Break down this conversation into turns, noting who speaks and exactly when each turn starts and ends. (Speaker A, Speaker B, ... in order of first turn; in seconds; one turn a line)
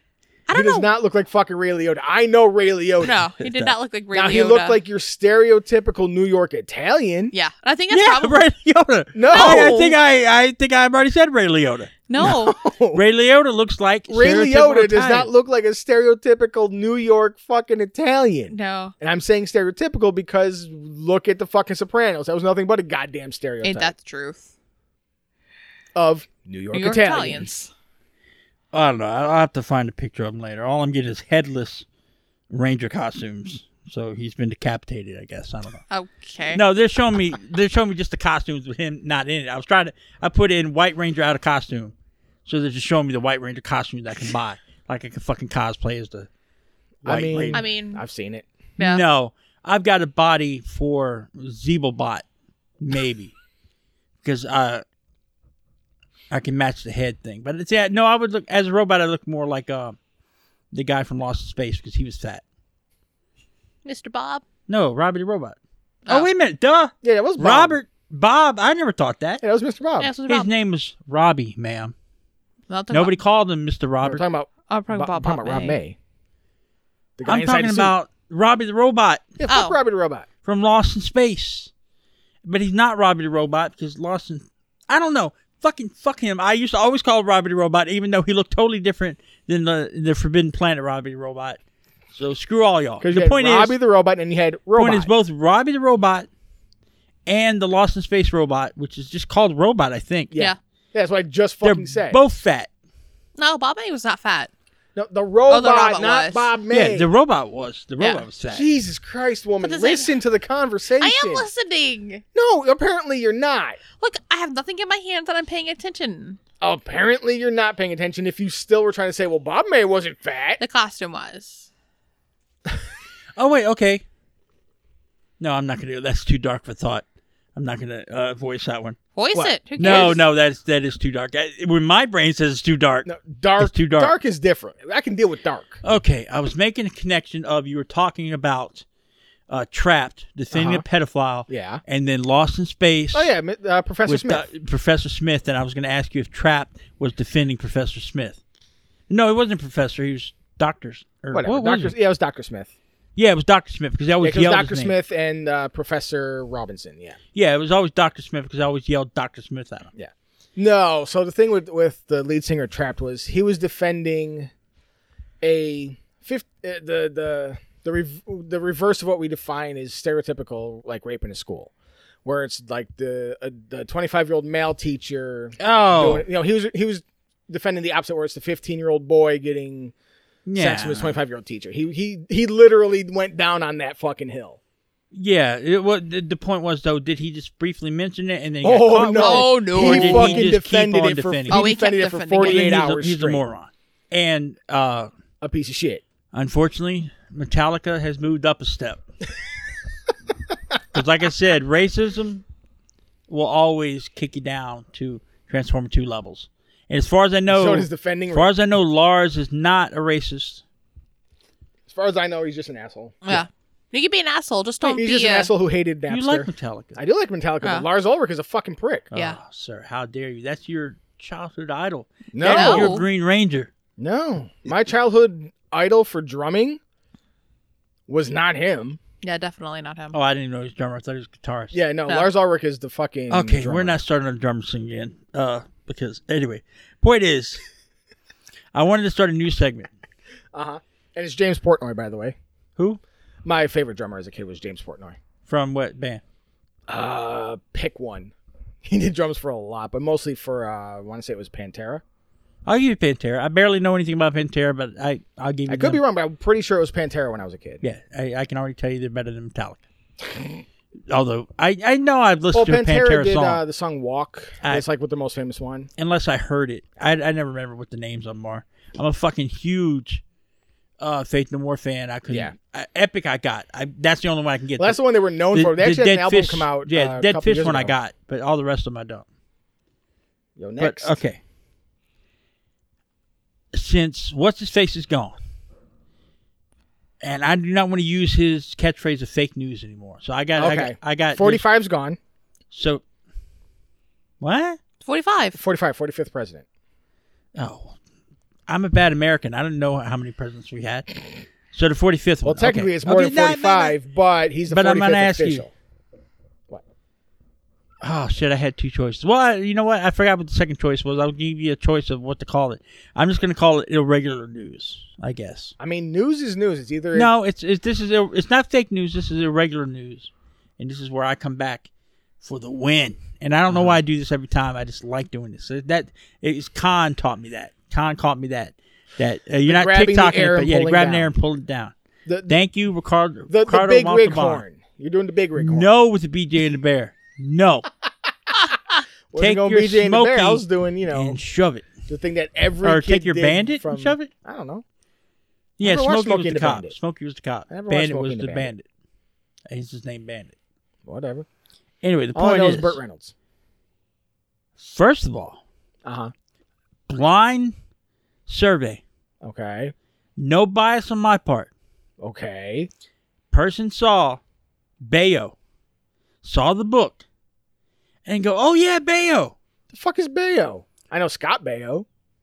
Speaker A: 0.5-0.9
Speaker B: 0.5-3.2
Speaker A: 3.0-4.8
Speaker C: 3.4-3.7
Speaker B: 4.1-7.3
Speaker A: 7.3-8.4
Speaker C: 7.9-12.4
Speaker B: 9.1-9.8
Speaker A: 9.3-9.9
Speaker A: 12.1-12.5
Speaker B: 12.2-13.0
Speaker C: 12.9-15.3
Speaker B: 14.1-23.9
Speaker A: 18.5-18.9
Speaker A: 23.6-24.5
Speaker B: 25.9-27.5
Speaker A: 26.7-27.7
Speaker C: 28.7-31.9
Speaker C: 32.5-35.8
Speaker A: 35.9-36.6
Speaker C: 36.5-41.9
Speaker C: 42.4-46.3
Speaker B: 47.0-48.5
Speaker C: 47.0-47.6
Speaker A: 47.5-48.0
Speaker A: 48.8-49.0
Speaker C: 48.8-52.2
Speaker C: 52.8-53.3
Speaker C: 54.2-54.8
Speaker C: 56.3-60.0
Speaker C: 60.7-62.4
Speaker A: 63.8-64.4
Speaker C: 64.7-69.4
Speaker B: 67.0-67.8
Speaker B: 69.4-70.1
Speaker A: 70.0-70.5
Speaker C: 70.3-71.9
Speaker A: 72.7-73.1
Speaker C: 72.9-74.2
Speaker B: 74.0-76.0
Speaker A: 74.7-75.8
Speaker B: 77.2-77.9
Speaker C: 77.2-79.3
Speaker B: 79.4-80.2
Speaker A: 79.5-79.8
Speaker C: 80.4-81.7
Speaker C: 82.4-91.6
Speaker C: 92.1-93.8
Speaker B: 93.0-95.1
Speaker C: 94.8-96.3
Speaker C: 97.2-100.3
Speaker B: 100.3-102.2
Speaker C: 101.6-102.7
Speaker A: 103.4-104.5
Speaker B: 105.0-107.1
Speaker A: 105.5-106.5
Speaker C: 106.7-108.7
Speaker A: 108.0-108.2
Speaker B: 108.5-111.5
Speaker A: 109.6-110.2
Speaker A: 111.0-112.2
Speaker B: 112.3-113.8
Speaker A: 114.0-116.4
Speaker B: 116.6-120.6
Speaker A: 120.6-121.7
Speaker C: 123.3-124.0
Speaker C: 125.4-129.0
Speaker A: 129.2-130.2
Speaker B: 129.3-130.2
Speaker C: 129.8-133.1
Speaker B: 133.0-135.8
Speaker C: 133.6-134.1
Speaker C: 135.8-138.8
Speaker C: 139.5-143.3
Speaker B: 140.5-140.8
Speaker B: 141.5-141.8
Speaker B: 143.1-144.5
Speaker C: 144.1-148.4
Speaker C: 149.1-151.9
Speaker B: 151.3-152.7
Speaker C: 153.2-154.9
Speaker B: 154.2-157.2
Speaker C: 157.3-159.9
Speaker B: 159.9-164.5
Speaker B: 165.4-171.7
Speaker B: 172.2-179.9
Speaker C: 175.6-176.2
Speaker C: 180.4-181.1
Speaker B: 180.6-184.6
Speaker C: 185.1-191.7
Speaker B: 188.6-193.4
Speaker A: 189.1-190.4
Speaker A: 191.5-192.8
Speaker C: 192.4-195.1
Speaker B: 195.4-196.0
Speaker C: 196.3-199.0
Speaker C: 200.9-202.4
Speaker C: 203.3-210.6
Speaker B: 207.5-208.5
Speaker B: 211.9-213.2
Speaker A: 213.2-215.5
Speaker B: 214.8-219.1
Speaker C: 216.1-217.0
Speaker C: 219.1-223.7
Speaker B: 222.3-223.0
Speaker A: 222.4-223.1
Speaker B: 224.0-226.8
Speaker B: 228.1-229.0
Speaker A: 229.2-230.2
Speaker C: 230.1-231.8
Speaker B: 231.7-234.0
Speaker C: 233.3-237.6
Speaker C: 238.7-239.9
Speaker B: 240.5-242.3
Speaker B: 243.4-245.2
Speaker C: 245.5-246.2
Speaker B: 246.9-248.3
Speaker B: 248.8-252.0
Speaker C: 252.6-256.0
Speaker B: 255.7-257.8
Speaker C: 257.8-259.8
Speaker C: 261.1-263.6
Speaker B: 262.5-265.9
Speaker C: 266.0-270.2
Speaker C: 271.0-275.0
Speaker B: 272.3-272.5
Speaker B: 274.8-277.9
Speaker C: 275.5-279.2
Speaker B: 280.6-281.2
Speaker C: 280.8-281.4
Speaker C: 283.7-285.4
Speaker C: 287.2-291.6
Speaker B: 290.6-292.2
Speaker C: 292.7-293.0
Speaker C: 294.4-294.8
Speaker A: 295.0-295.6
Speaker B: 295.5-296.6
Speaker C: 297.5-298.0
Speaker C: 298.7-301.1
Speaker C: 301.7-304.0
Speaker B: 302.4-305.7
Speaker C: 304.7-305.6
Speaker C: 308.0-315.7
Speaker B: 315.8-317.3
Speaker C: 317.1-321.9
Speaker C: 322.4-331.9
Speaker B: 323.7-324.0
Speaker B: 329.7-331.3
Speaker B: 332.2-332.6
Speaker C: 332.5-334.6
Speaker B: 333.5-335.9
Speaker C: 335.6-337.9
Speaker B: 339.3-341.4
Speaker C: 339.4-342.0
Speaker B: 342.0-344.8
Speaker C: 342.8-344.3
Speaker C: 345.8-348.9
Speaker B: 345.8-346.9
Speaker B: 347.7-348.7
Speaker C: 349.7-350.5
Speaker B: 351.1-351.4
Speaker C: 352.0-353.0
Speaker B: 352.3-353.3
Speaker C: 354.8-355.6
Speaker B: 356.0-356.3
Speaker C: 357.1-357.8
Speaker C: 358.5-359.0
Speaker B: 359.4-359.9
Speaker C: 360.4-361.7
Speaker B: 362.2-362.9
Speaker C: 363.5-364.4
Speaker C: 365.0-365.5
Speaker C: 366.4-367.2
Speaker C: 368.2-369.5
Speaker B: 369.9-372.1